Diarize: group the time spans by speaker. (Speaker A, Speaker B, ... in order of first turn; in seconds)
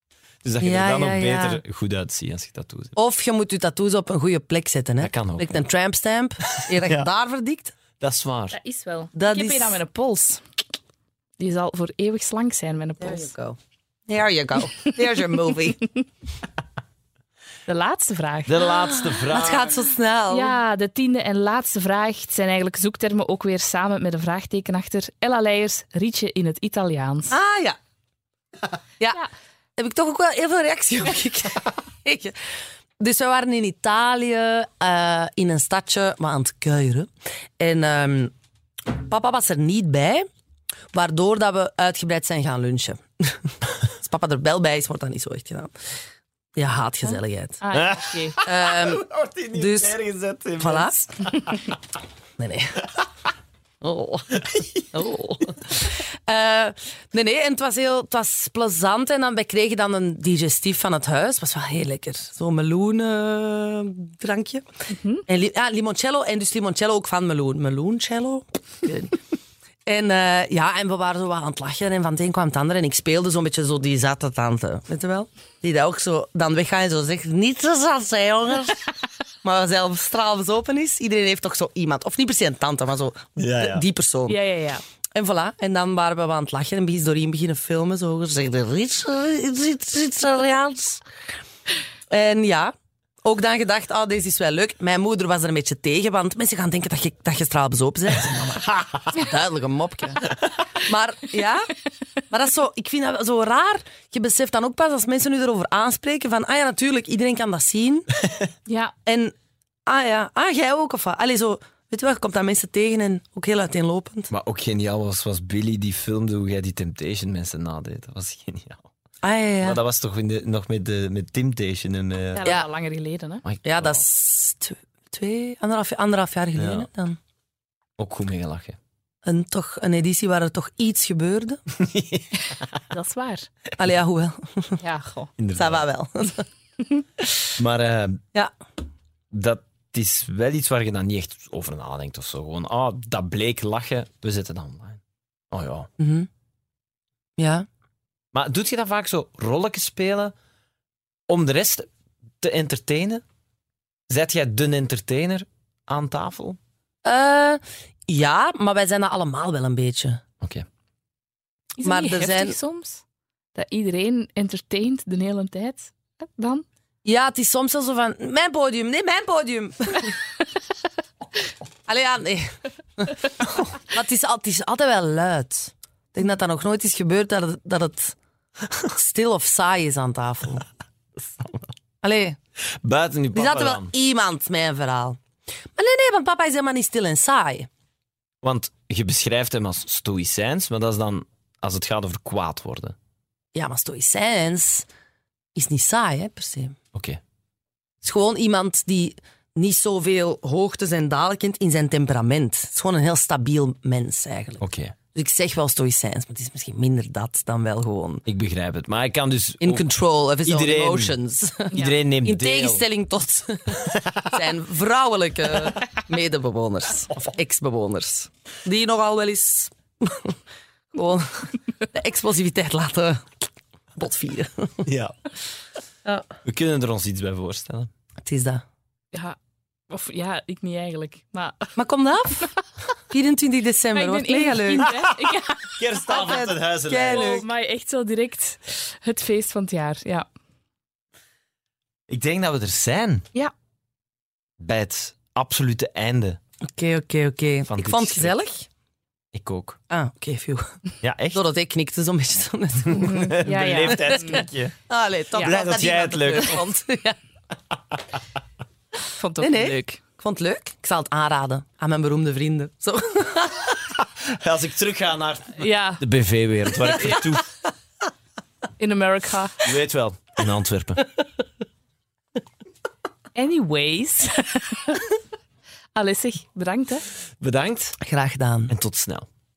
Speaker A: 0.4-2.9, 5.0-5.7, 6.5-7.1, 8.0-8.6, 18.4-19.8, 47.7-51.8, 54.3-54.8, 83.4-83.8, 114.3-118.9, 119.6-122.5, 123.4-124.0, 126.5-126.9, 128.0-128.8, 131.8-132.3, 135.4-135.9, 137.6-138.2, 139.3-145.9, 148.3-150.3, 151.3-151.9, 152.4-153.2, 154.1-156.6, 160.4-160.7, 181.2-181.7, 182.6-183.9, 188.4-192.9, 196.9-197.2, 204.6-204.9, 208.2-209.9, 210.4-212.8, 213.7-214.3, 224.8-225.1, 226.4-227.9, 234.8-237.4, 242.1-243.2, 244.6-246.4, 247.7-248.3, 249.3-249.8, 251.0-251.4, 252.8-254.7, 255.3-256.6, 264.0-267.4, 269.6-271.0, 277.4-278.0, 278.7-279.3
Speaker B: 0.6-1.6, 3.0-7.7, 9.1-9.8, 13.0-15.8, 18.8-20.5, 27.3-27.8, 29.8-32.4, 33.0-37.1, 37.6-38.3, 38.9-40.3, 40.9-45.7, 46.5-47.6, 48.4-49.9, 50.6-51.0, 52.4-52.8, 53.8-54.4, 54.9-64.7, 65.2-69.2, 69.8-78.8, 79.4-84.4, 85.1-91.0, 92.1-101.7, 102.3-108.1, 109.0-109.3, 109.8-114.3, 119.2-119.8, 123.6-127.2, 129.2-131.6, 133.8-134.8, 135.5-136.4, 146.0-146.3, 147.4-147.7, 157.0-160.2, 161.8-162.6, 167.0-170.1, 171.9-173.2, 173.8-178.2, 178.9-180.6, 182.0-182.4, 183.3-185.2, 185.8-187.7, 193.5-194.8, 195.5-196.8, 198.0-204.6, 205.1-208.2, 209.6-211.7, 212.2-220.3, 220.9-223.3, 223.9-224.8, 228.2-228.6, 231.8-232.5, 233.1-234.9, 236.1-237.4, 246.7-248.7, 249.9-250.7, 251.3-257.2, 259.4-263.9, 278.0-278.7
Speaker C: 8.5-10.4, 11.4-13.3, 14.8-15.5, 17.7-18.6, 20.3-27.3, 47.0-48.4, 64.9-65.2, 84.3-84.8, 108.7-108.9, 122.3-123.4, 132.4-133.5, 134.8-135.3, 161.8-163.0, 163.5-166.6, 229.9-231.7, 233.9-235.8, 237.1-240.3, 252.9-254.4, 259.0-260.0, 265.6-266.0, 268.8-269.7, 273.3-275.1, 275.9-277.1